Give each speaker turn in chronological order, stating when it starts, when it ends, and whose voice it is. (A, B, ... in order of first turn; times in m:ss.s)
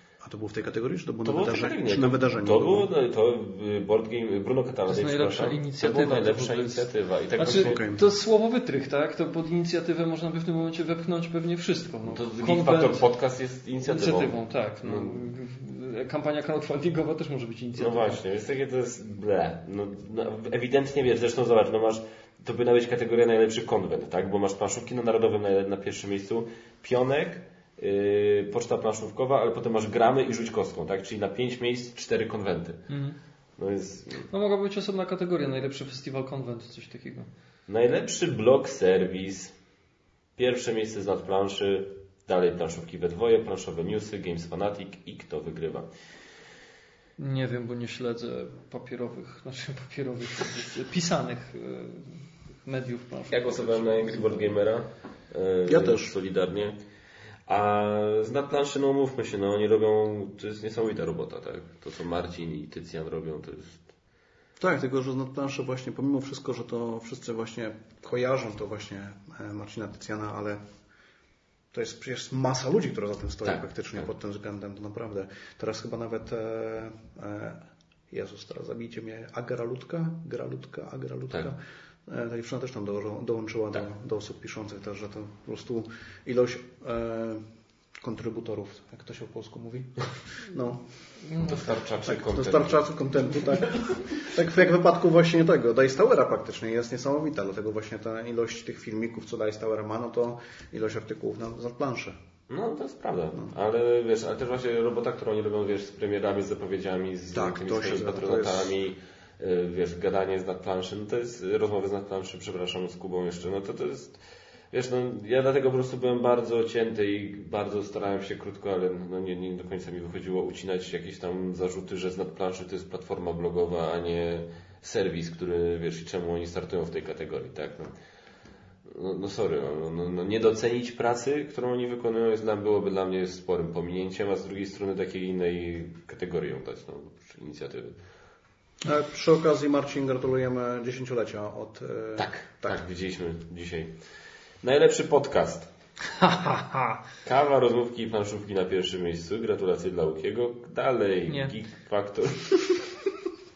0:00.2-0:02.9 A
0:01.2-0:07.9 B
0:04.9-0:13.0 C
0:07.4-0:08.0 A
0:12.1-0:15.2 B
0:13.8-0:18.2 C
0:17.8-0:32.8 B
0:32.9-0:33.2 C
0:33.6-0:34.3 B
0:34.3-0:37.3 C
0:37.7-0:39.5 B
0:40.4-0:45.9 B
0:47.2-0:52.1 C
0:52.6-0:54.5 C
0:53.3-0:56.8 B
0:55.6-0:56.1 A
0:57.5-1:03.8 B
1:04.6-1:10.6 A
1:11.7-1:27.4 A
1:28.0-1:30.0 A
1:30.5-1:30.8 A
1:31.3-1:31.6 C
1:31.4-1:32.8 B
1:32.1-1:42.2 A
1:33.6-1:34.0 B
1:42.5-1:54.2 B
1:47.3-1:48.7 A
1:54.7-2:07.9 B
2:08.9-2:18.0 B
2:18.8-2:22.8 A
2:22.2-2:23.9 B
2:24.6-2:25.7 B
2:26.1-2:27.0 C
2:27.2-2:32.9 B
2:31.3-2:31.5 C